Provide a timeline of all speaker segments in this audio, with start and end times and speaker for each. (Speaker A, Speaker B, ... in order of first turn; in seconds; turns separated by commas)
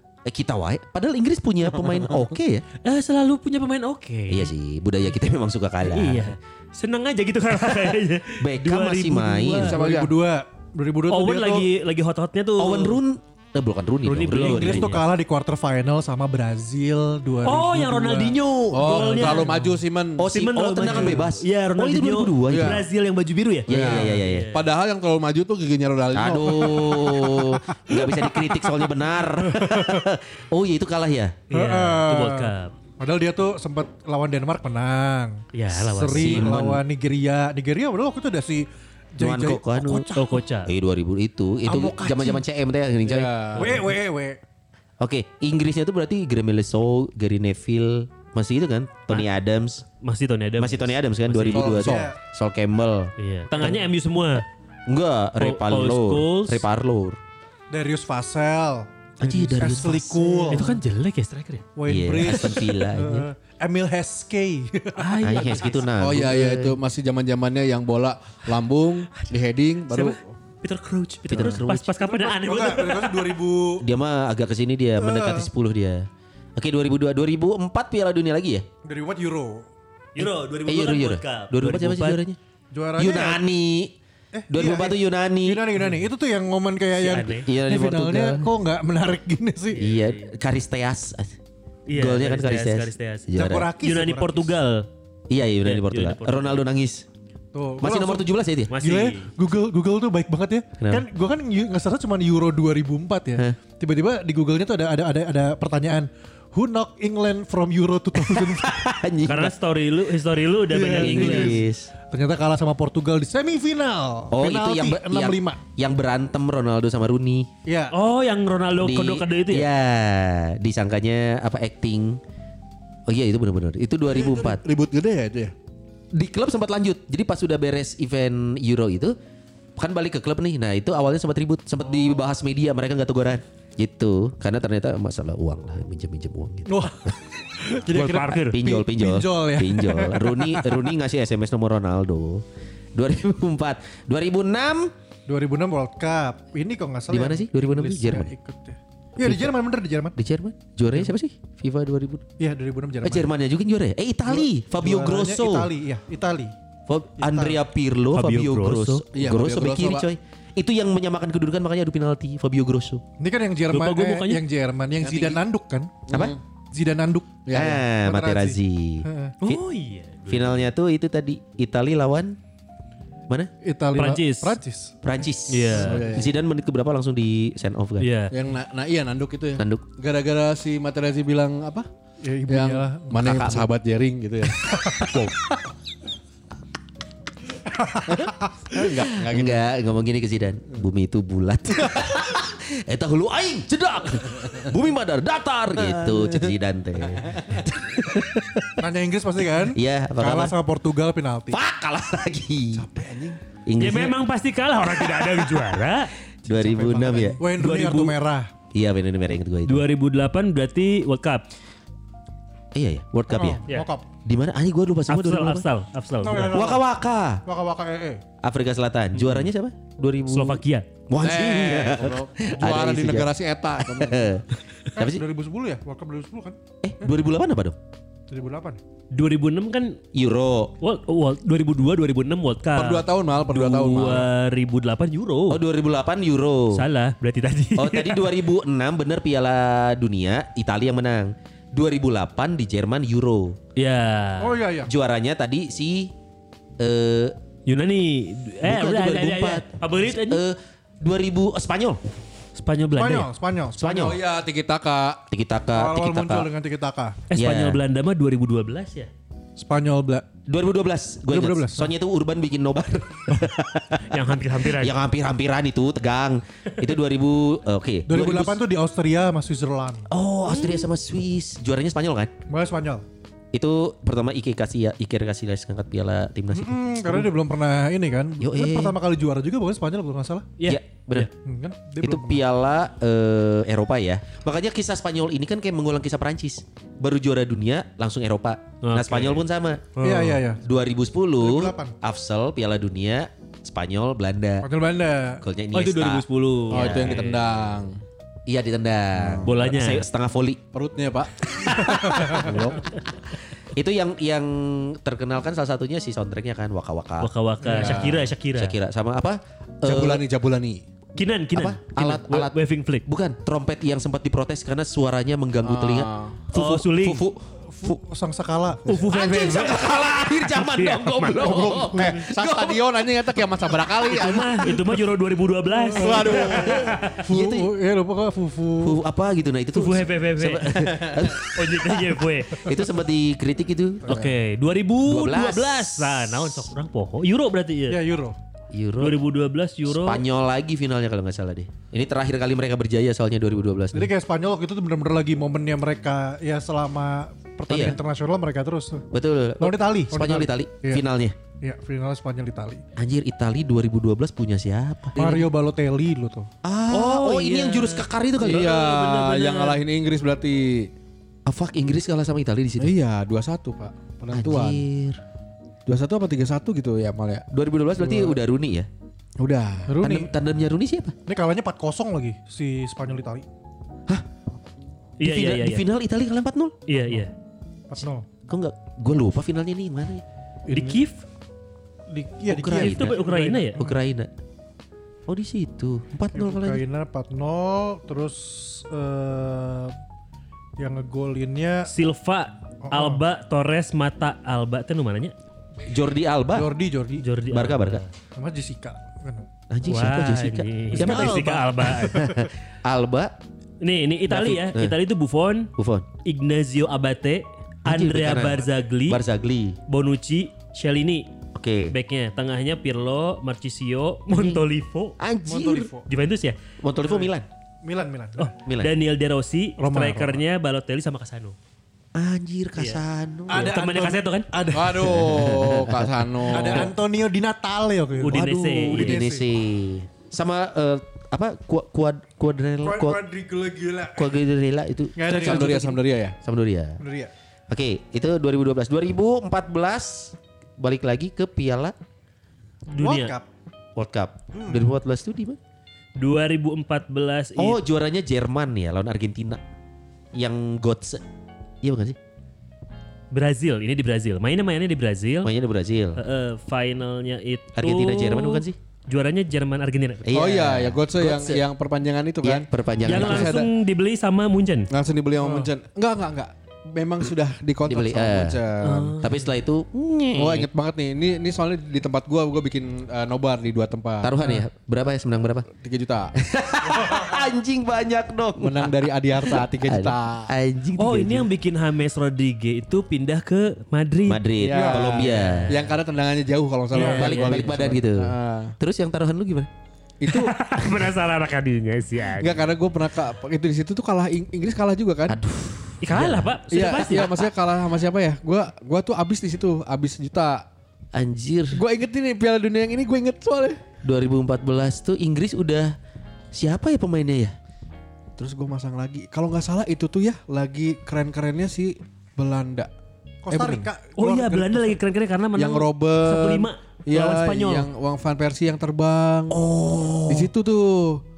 Speaker A: 0.2-2.6, Speaker B: 2.8-4.5, Speaker A: 4.3-6.3, Speaker B: 5.8-9.7, Speaker A: 8.4-9.8, Speaker C: 9.5-11.7, Speaker D: 9.6-10.1, Speaker B: 11.1-13.0, Speaker A: 12.6-15.0, Speaker B: 14.0-15.0, Speaker C: 14.3-18.4, Speaker B: 17.4-19.6, Speaker A: 18.7-19.1, Speaker D: 18.7-20.2, Speaker C: 19.2-19.6, Speaker A: 20.2-22.8, Speaker B: 20.2-24.6, Speaker D: 20.9-21.2, Speaker D: 22.4-22.8, Speaker A: 23.7-24.5, Speaker D: 23.7-27.5, Speaker C: 23.8-24.1, Speaker A: 26.1-31.4, Speaker C: 28.0-28.7, Speaker C: 29.4-30.1, Speaker B: 31.5-32.7, Speaker C: 31.5-40.4, Speaker B: 35.5-36.5, Speaker A: 36.1-36.8, Speaker A: 39.2-40.1, Speaker B: 40.1-40.7, Speaker A: 40.6-43.8, Speaker C: 41.6-42.4, Speaker D: 43.0-43.8, Speaker C: 43.6-44.4, Speaker A: 45.0-49.8, Speaker B: 50.0-51.8, Speaker A: 50.6-53.8, Speaker C: 51.5-52.2, Speaker D: 51.5-52.1, Speaker B: 53.2-54.4, Speaker A: 54.9-57.2, Speaker B: 55.4-56.6, Speaker C: 57.7-60.8, Speaker A: 59.2-60.7, Speaker B: 60.5-61.7, Speaker C: 61.8-65.2, Speaker A: 61.9-63.3, Speaker B: 65.0-65.9, Speaker A: 65.2-66.8, Speaker D: 66.0-70.3, Speaker B: 69.9-73.3, Speaker A: 71.3-72.0, Speaker C: 72.0-73.8, Speaker A: 73.8-78.7, Speaker C: 75.0-75.5, Speaker C: 78.8-79.7, Speaker B: 80.1-82.2, Speaker A: 80.2-82.4, Speaker C: 82.7-83.4, Speaker A: 83.0-83.9, Speaker C: 84.3-89.9, Speaker A: 84.5-85.7, Speaker B: 87.0-87.5, Speaker A: 87.3-88.5, Speaker B: 89.8-90.2, Speaker A: 89.8-91.3, Speaker B: 91.9-94.9, Speaker A: 91.9-93.7, Speaker C: 93.3-94.5, Speaker A: 95.3-97.0, Speaker B: 95.6-96.6, Speaker C: 97.5-108.8, Speaker A: 97.8-98.7, Speaker B: 98.7-99.3, Speaker A: 100.8-101.0, Speaker A: 108.1-109.5, Speaker B: 109.2-111.5, Speaker C: 110.7-115.6, Speaker A: 111.0-111.9, Speaker A: 114.3-117.5, Speaker C: 117.7-117.9, Speaker B: 117.9-119.7, Speaker A: 118.8-122.2, Speaker A: 123.1-124.6, Speaker D: 124.1-125.5, Speaker A: 126.1-129.1, Speaker A: 129.8-137.1, Speaker C: 136.7-140.9, Speaker B: 137.9-138.6, Speaker A: 138.5-144.9, Speaker C: 145.3-150.2, Speaker A: 147.1-148.3, Speaker A: 149.2-149.5, Speaker A: 150.2-152.2, Speaker C: 152.4-153.3, Speaker A: 153.0-155.7, Speaker C: 154.3-156.5, Speaker A: 156.9-163.0, Speaker C: 157.2-157.6, Speaker B: 158.1-159.0, Speaker D: 159.1-160.1, Speaker C: 163.2-165.9, Speaker B: 163.7-164.4, Speaker D: 165.0-165.4, Speaker D: 166.1-166.4, Speaker A: 166.1-166.4, Speaker C: 166.7-169.4, Speaker D: 167.4-167.8, Speaker A: 167.5-169.6, Speaker B: 169.4-170.6, Speaker A: 170.3-172.4, Speaker C: 173.6-174.9, Speaker B: 173.9-174.6, Speaker A: 175.0-178.1, Speaker B: 175.5-176.0, Speaker D: 175.7-176.3, Speaker B: 178.0-178.3, Speaker D: 178.3-181.9, Speaker A: 179.6-179.8, Speaker C: 182.2-183.4, Speaker D: 182.5-185.3, Speaker A: 183.2-183.7, Speaker C: 184.8-185.1, Speaker A: 185.0-185.3, Speaker C: 187.8-188.7, Speaker D: 188.1-189.7, Speaker A: 189.1-198.8, Speaker D: 195.8-196.5, Speaker C: 198.8-201.6, Speaker A: 199.7-200.5, Speaker A: 201.5-202.8, Speaker D: 202.7-203.4, Speaker A: 203.7-204.1, Speaker B: 203.8-206.1, Speaker A: 204.9-205.7, Speaker A: 206.4-207.4, Speaker C: 206.5-208.5, Speaker D: 207.0-207.3, Speaker B: 207.5-208.1, Speaker A: 208.7-209.8, Speaker B: 209.7-211.4, Speaker A: 212.7-213.6, Speaker C: 213.3-214.1, Speaker A: 214.2-215.7, Speaker B: 215.1-216.7, Speaker C: 216.2-216.8, Speaker A: 216.5-217.4, Speaker C: 217.4-218.2, Speaker A: 218.4-225.2, Speaker B: 219.1-219.4, Speaker B: 220.3-220.9, Speaker D: 221.2-224.3, Speaker C: 224.9-226.6, Speaker A: 226.8-227.8, Speaker C: 228.3-228.8, Speaker B: 229.1-230.0, Speaker A: 230.1-230.7, Speaker B: 230.8-235.6, Speaker D: 232.7-234.3, Speaker A: 235.5-236.8, Speaker B: 236.7-238.3, Speaker A: 237.8-243.6, Speaker B: 243.8-244.5, Speaker C: 244.4-244.9, Speaker A: 244.8-246.1, Speaker A: 246.8-247.3, Speaker B: 247.7-250.4, Speaker A: 248.6-252.0, Speaker B: 252.6-253.3, Speaker C: 253.0-254.0, Speaker A: 253.8-254.2, Speaker D: 253.8-255.2, Speaker A: 255.3-256.5, Speaker C: 255.7-257.2, Speaker B: 257.3-259.1, Speaker A: 257.3-257.8, Speaker C: 259.6-260.2, Speaker A: 260.5-268.6, Speaker C: 261.3-261.9, Speaker B: 264.1-265.0, Speaker C: 268.1-270.1, Speaker A: 270.1-272.3, Speaker B: 270.5-270.8, Speaker C: 272.5-273.0, Speaker A: 273.5-277.3, Speaker C: 276.5-280.5, Speaker A: 278.4-279.0, Speaker B: 280.6-281.3, Speaker A: 280.6-281.3, Speaker C: 281.4-282.4, Speaker A: 282.0-294.7, Speaker B: 288.8-289.4, Speaker C: 290.0-290.6, Speaker C: 291.4-291.9, Speaker C: 294.6-295.4, Speaker A: 295.4-297.3, Speaker B: 295.7-297.4, Speaker D: 296.7-298.0, Speaker A: 298.5-300.6, Speaker D: 299.1-299.5, Speaker B: 299.4-300.0, Speaker D: 300.7-302.8, Speaker A: 301.5-310.2, Speaker B: 307.2-308.7, Speaker D: 307.6-308.2, Speaker D: 309.8-310.8, Speaker B: 311.1-313.0, Speaker A: 311.5-318.0, Speaker D: 315.6-316.4, Speaker B: 316.5-317.2, Speaker C: 317.7-319.0, Speaker B: 318.9-321.9, Speaker A: 319.1-322.8, Speaker D: 321.4-324.8, Speaker B: 324.0-327.2, Speaker C: 325.7-329.0, Speaker D: 325.9-327.0, Speaker A: 326.3-327.7, Speaker A: 328.8-334.3, Speaker B: 329.7-332.7, Speaker B: 334.1-338.0, Speaker A: 335.0-336.6, Speaker C: 337.9-338.4, Speaker A: 338.7-339.2, Speaker B: 339.0-340.2, Speaker A: 339.9-344.1, Speaker C: 343.9-349.0, Speaker A: 347.7-348.0, Speaker A: 349.1-351.4, Speaker C: 349.6-351.0, Speaker C: 351.6-352.8, Speaker A: 353.0-355.5, Speaker C: 355.1-356.5, Speaker A: 356.6-358.8, Speaker B: 356.9-359.8, Speaker D: 358.4-360.9, Speaker A: 361.4-362.9, Speaker D: 362.8-364.8, Speaker A: 364.3-365.2, Speaker D: 365.9-367.4, Speaker A: 367.5-368.9, Speaker D: 368.0-368.3, Speaker D: 369.4-369.9, Speaker C: 369.9-370.3, Speaker A: 370.0-371.1, Speaker C: 371.3-373.4, Speaker B: 375.2-375.8, Speaker A: 375.2-376.7, Speaker B: 376.9-377.3, Speaker C: 377.9-378.2, Speaker A: 378.5-380.2, Speaker C: 380.7-381.0, Speaker B: 380.7-381.2, Speaker C: 382.1-384.0, Speaker A: 382.5-383.2, Speaker B: 382.7-383.8, Speaker A: 383.7-384.3, Speaker A: 385.3-386.8, Speaker C: 386.3-389.9, Speaker C: 390.8-391.9, Speaker B: 391.9-395.3, Speaker C: 392.9-393.2, Speaker A: 395.9-396.7, Speaker C: 396.5-397.2, Speaker B: 397.2-398.1, Speaker A: 397.5-398.0, Speaker C: 398.4-399.5, Speaker A: 399.7-403.4, Speaker B: 399.9-402.3, Speaker C: 400.9-402.5, Speaker B: 403.8-405.7, Speaker A: 404.3-404.9, Speaker A: 405.8-406.1, Speaker B: 406.2-409.2, Speaker A: 407.8-409.8, Speaker B: 409.9-411.3, Speaker A: 411.5-411.9, Speaker B: 411.9-415.2, Speaker A: 414.3-414.6, Speaker A: 415.2-415.9, Speaker C: 415.5-416.1, Speaker B: 416.1-416.6, Speaker A: 416.8-417.5, Speaker C: 417.0-417.3, Speaker C: 417.8-418.5, Speaker B: 418.4-421.6, Speaker A: 418.6-418.9, Speaker C: 419.8-420.4, Speaker A: 422.1-423.7, Speaker B: 422.8-424.5, Speaker C: 423.5-425.4, Speaker D: 424.7-426.9, Speaker A: 424.9-426.9, Speaker C: 426.5-429.4, Speaker B: 428.2-429.2, Speaker A: 428.3-433.2, Speaker C: 432.8-434.3, Speaker A: 434.1-437.0, Speaker C: 435.1-435.9, Speaker D: 435.3-436.4, Speaker C: 437.0-437.3, Speaker A: 437.7-441.9, Speaker B: 442.9-443.3, Speaker C: 443.0-443.4, Speaker A: 443.9-445.6, Speaker C: 444.5-444.9, Speaker B: 446.2-447.8, Speaker A: 447.6-449.6, Speaker A: 450.3-451.2, Speaker A: 451.8-452.2, Speaker B: 453.3-455.5, Speaker A: 455.4-456.2, Speaker B: 456.1-460.3, Speaker A: 457.7-458.8, Speaker A: 460.2-461.6, Speaker D: 460.3-463.7, Speaker A: 462.4-463.6, Speaker B: 463.0-464.9, Speaker D: 464.9-469.2, Speaker C: 465.4-465.7, Speaker A: 467.8-468.6, Speaker B: 468.8-469.4, Speaker A: 469.1-470.7, Speaker D: 470.3-474.4, Speaker A: 474.2-475.7, Speaker D: 475.7-476.3, Speaker A: 476.3-481.5, Speaker D: 478.6-480.5, Speaker B: 480.9-484.4, Speaker A: 484.3-485.8, Speaker D: 484.6-488.7, Speaker C: 484.7-485.1, Speaker B: 485.1-485.9, Speaker C: 486.9-487.3, Speaker B: 486.9-487.8, Speaker A: 487.1-489.7, Speaker D: 490.2-491.1, Speaker B: 490.3-492.7, Speaker D: 492.4-495.4, Speaker A: 495.3-497.4, Speaker B: 496.0-497.5, Speaker D: 496.7-500.6, Speaker A: 501.1-501.8, Speaker D: 501.7-503.8, Speaker A: 504.0-505.9, Speaker A: 506.5-507.5, Speaker D: 508.4-512.9, Speaker C: 513.4-515.0, Speaker D: 513.5-513.9, Speaker B: 514.2-517.9, Speaker D: 515.5-519.6, Speaker A: 519.5-520.5, Speaker D: 520.3-521.2